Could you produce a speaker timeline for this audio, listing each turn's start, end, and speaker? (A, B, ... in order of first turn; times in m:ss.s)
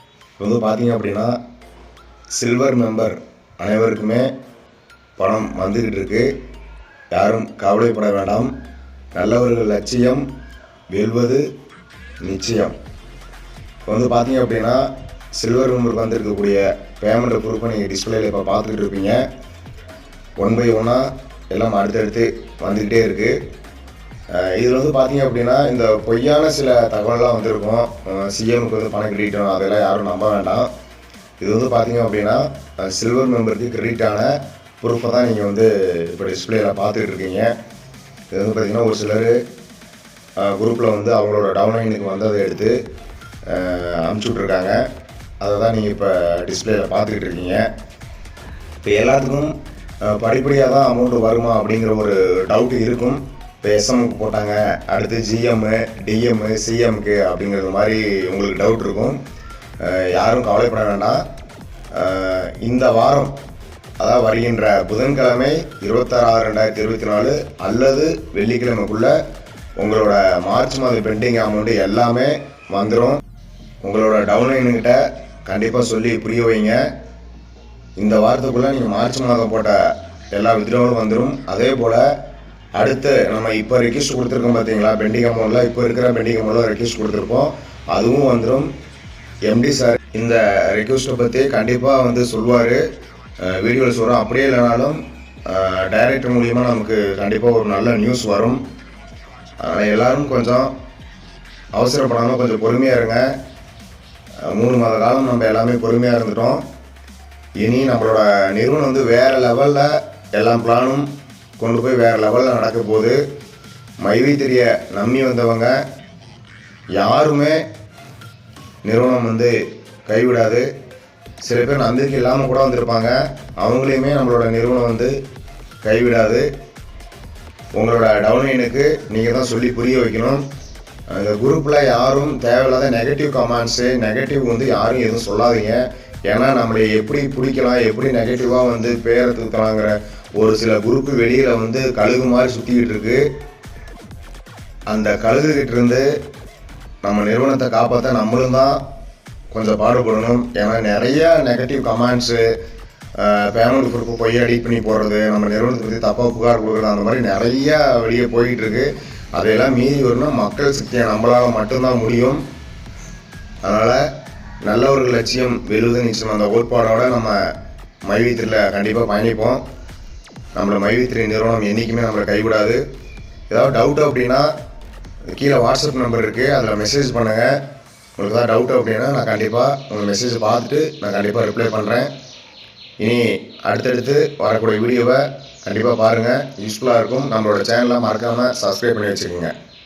0:00.4-0:01.4 A
0:02.3-0:04.3 A
0:05.2-0:06.3 A
0:07.1-0:08.5 A
0:09.1-0:10.2 A
0:10.9-0:11.5 A
0:12.2-0:12.8 A
0:13.8-0:19.2 A
0:20.4-0:23.4 A
0:24.3-0:30.7 A
0:31.4-0:37.5 A
0:38.3-0:39.4 A
0:40.4-0:42.8 A
0:43.5-0:44.8 A
0:45.4-0:47.7 A
0:48.8-0:59.2 A
0:59.8-1:01.2 A
1:01.9-1:03.4 A
1:04.0-1:09.2 A
1:09.8-1:13.2 A
1:13.8-1:16.8 A
1:18.0-1:22.0 A
1:22.8-1:28.7 A
1:29.5-1:32.8 A
1:33.4-1:38.6 A
1:39.6-1:40.7 A
1:41.7-1:43.3 A
1:44.5-1:46.6 A
1:47.6-1:53.2 A
1:54.0-1:55.8 A
1:57.0-1:57.6 A
1:58.8-1:59.5 A
2:00.1-2:00.7 A
2:01.4-2:05.2 A
2:05.8-2:06.5 A
2:07.8-2:10.5 A
2:11.1-2:23.3 A
2:24.9-2:26.1 A
2:27.0-2:28.8 A
2:29.5-2:32.4 A
2:33.2-2:42.4 A
2:43.6-2:44.0 A
2:44.7-2:47.5 A
2:48.0-2:49.6 A
2:50.5-2:52.8 A
2:53.5-2:54.5 A
2:55.3-2:57.6 A
2:58.2-3:02.1 A
3:03.0-3:09.5 A